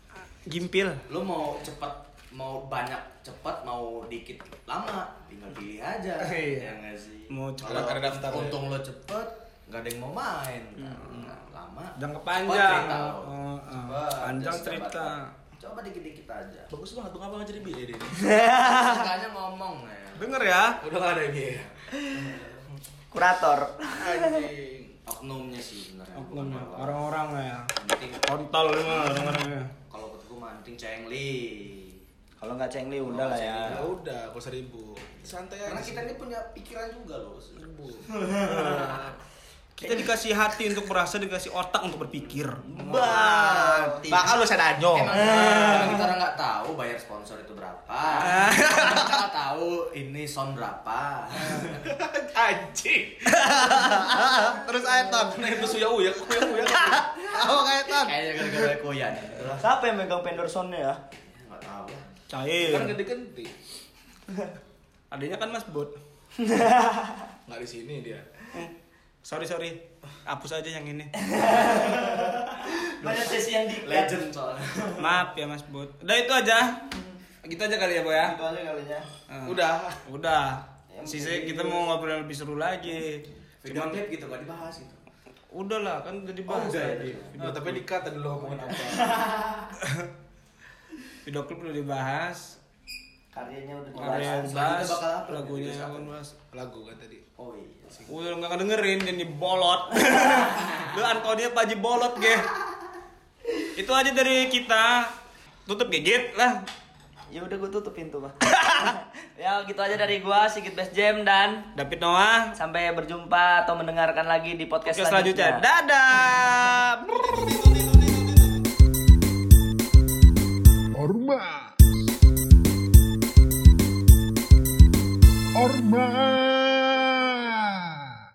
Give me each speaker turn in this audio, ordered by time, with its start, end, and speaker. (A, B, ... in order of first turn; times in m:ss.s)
0:00.5-0:01.0 A
0:01.1-0:16.7 B
0:06.2-0:06.7 A
0:07.3-0:08.0 A
0:07.6-0:08.7 C
0:11.0-0:11.3 A
0:12.0-0:15.3 A
0:16.7-0:18.2 C
0:18.1-0:19.1 D
0:18.5-0:20.6 B
0:20.2-0:20.8 A
0:20.8-0:21.8 C
0:22.1-0:22.6 B
0:23.1-0:24.4 D
0:24.0-0:25.0 C
0:25.1-0:27.0 B
0:26.2-0:27.7 A
0:27.8-0:28.2 B
0:28.2-0:29.7 A
0:29.9-0:32.0 B
0:32.4-0:33.8 D
0:33.1-0:33.9 B
0:33.6-0:36.1 C
0:35.6-0:39.1 B
0:37.6-0:38.1 C
0:38.4-0:39.2 A
0:39.8-0:44.3 A
0:42.7-0:44.2 D
0:44.1-0:45.2 C
0:44.9-0:51.9 B
0:45.4-0:45.7 D
0:45.4-0:46.0 A
0:48.2-0:49.2 A
0:51.6-0:57.1 C
0:53.3-0:55.6 A
0:56.6-0:58.7 A
0:57.9-0:59.6 B
0:59.6-1:01.0 D
1:01.3-1:02.1 B
1:02.3-1:03.0 A
1:02.6-1:03.5 C
1:05.1-1:05.9 A
1:06.4-1:07.3 D
1:07.5-1:08.3 C
1:08.5-1:11.1 A
1:11.2-1:14.2 D
1:13.0-1:13.3 A
1:13.7-1:15.3 B
1:15.0-1:16.9 A
1:17.4-1:18.4 A
1:18.1-1:19.0 D
1:19.3-1:24.0 A
1:19.4-1:20.0 C
1:20.9-1:21.9 D
1:23.6-1:25.0 B
1:25.5-1:27.8 A
1:26.5-1:27.4 B
1:27.4-1:29.2 C
1:28.5-1:29.7 B
1:29.8-1:30.1 A
1:31.2-1:32.6 A
1:33.3-1:34.6 D
1:34.0-1:36.3 A
1:34.0-1:36.1 B
1:36.5-1:37.2 C
1:37.4-1:38.1 B
1:38.1-1:42.5 A
1:40.3-1:40.9 B
1:43.8-1:45.1 A
1:45.7-1:46.6 A
1:47.3-1:51.7 D
1:48.4-1:49.0 A
1:51.8-1:52.5 A
1:52.6-1:55.6 D
1:54.8-1:57.4 A
1:57.2-1:58.3 C
2:01.0-2:01.7 E
2:05.6-2:08.2 E